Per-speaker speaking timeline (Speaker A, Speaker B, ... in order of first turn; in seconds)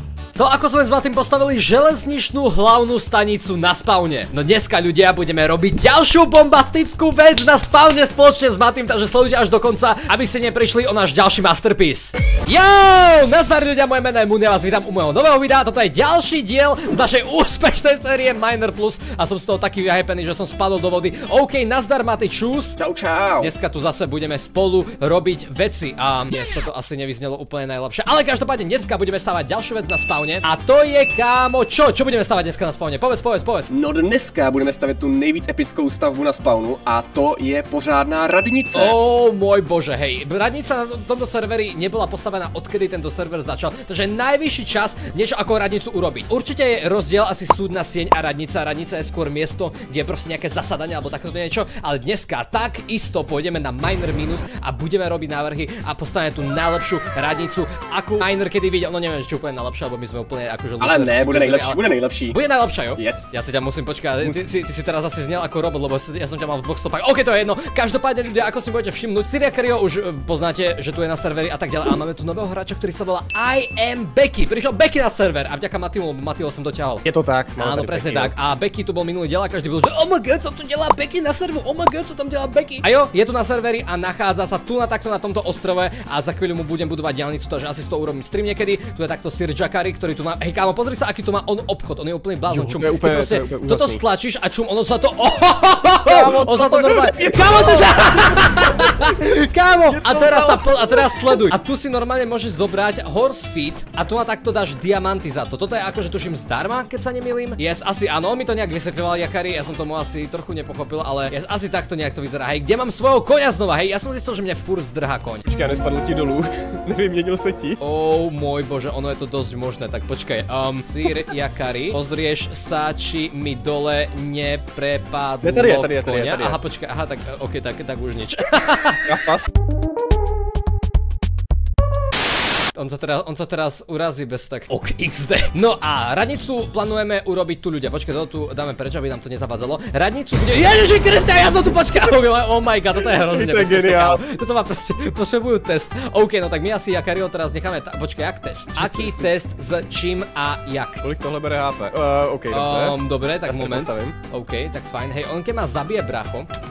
Speaker A: 0.4-22.8, 23.4-33.7, 38.7-77.0, 77.6-115.4, 117.8-129.1, 132.7-151.0, 152.5-156.5
Speaker B: 22.8-23.5, 33.7-38.9, 60.8-62.4, 63.0-63.4, 77.0-78.3, 92.5-94.0, 96.0-99.2, 99.8-101.4, 115.4-117.8, 125.4-126.6, 129.0-129.5, 143.0-144.2, 148.7-149.3, 151.0-154.2